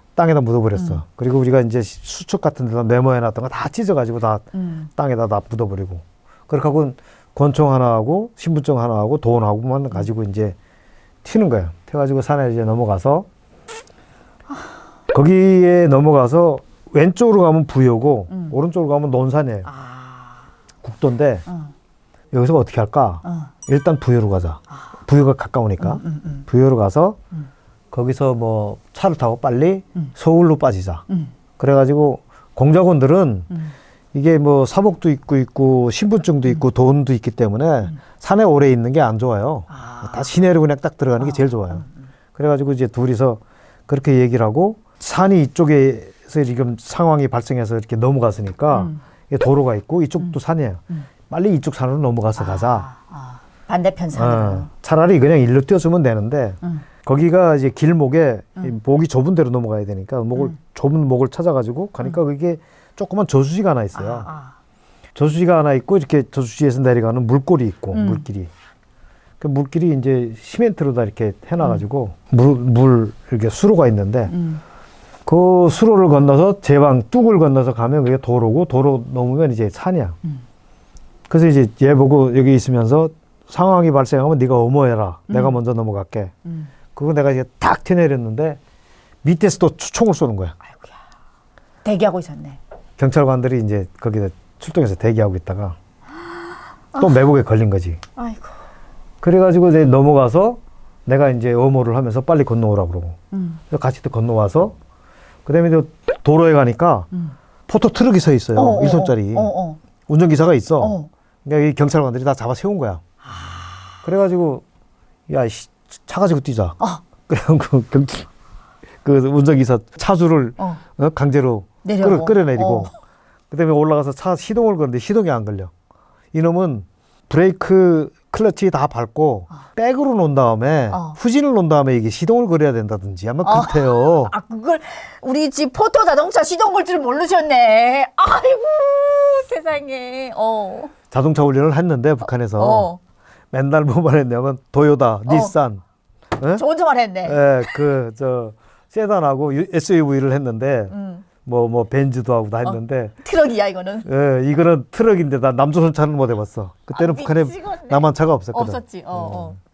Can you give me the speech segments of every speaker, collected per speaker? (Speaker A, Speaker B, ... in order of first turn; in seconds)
Speaker A: 0.1-10.6, 11.2-13.3, 15.1-19.7, 20.8-21.4, 22.3-27.2, 27.9-31.0, 31.6-33.6, 34.1-41.8, 42.3-52.9, 54.1-64.3, 65.1-68.5, 69.4-74.3, 75.2-80.2, 81.3-86.3, 86.9-88.6, 89.2-90.5, 93.0-95.8, 97.0-98.0, 99.2-103.2, 103.7-104.8, 105.5-107.1, 107.7-109.5, 110.1-113.0, 114.0-114.6, 115.3-118.3, 119.0-122.9, 123.5-125.7, 126.3-134.3, 141.1-142.9, 143.5-145.8, 147.2-153.2, 154.0-159.6
Speaker B: 0.7-1.0, 4.5-4.9, 18.3-18.6, 19.6-20.5, 23.2-23.5, 25.8-26.5, 39.7-40.3, 41.2-41.9, 48.7-49.0, 52.4-54.7, 63.9-64.6, 67.9-68.2, 74.3-74.6, 85.3-85.6, 90.7-90.9, 91.8-92.6, 96.9-97.3, 98.2-98.6, 103.3-103.6, 108.5-109.8, 110.8-111.1, 121.8-122.9, 130.9-131.2, 133.4-140.9, 142.5-143.0, 145.3-145.5, 146.5-147.4, 150.9-151.2, 152.6-154.1, 156.9-159.6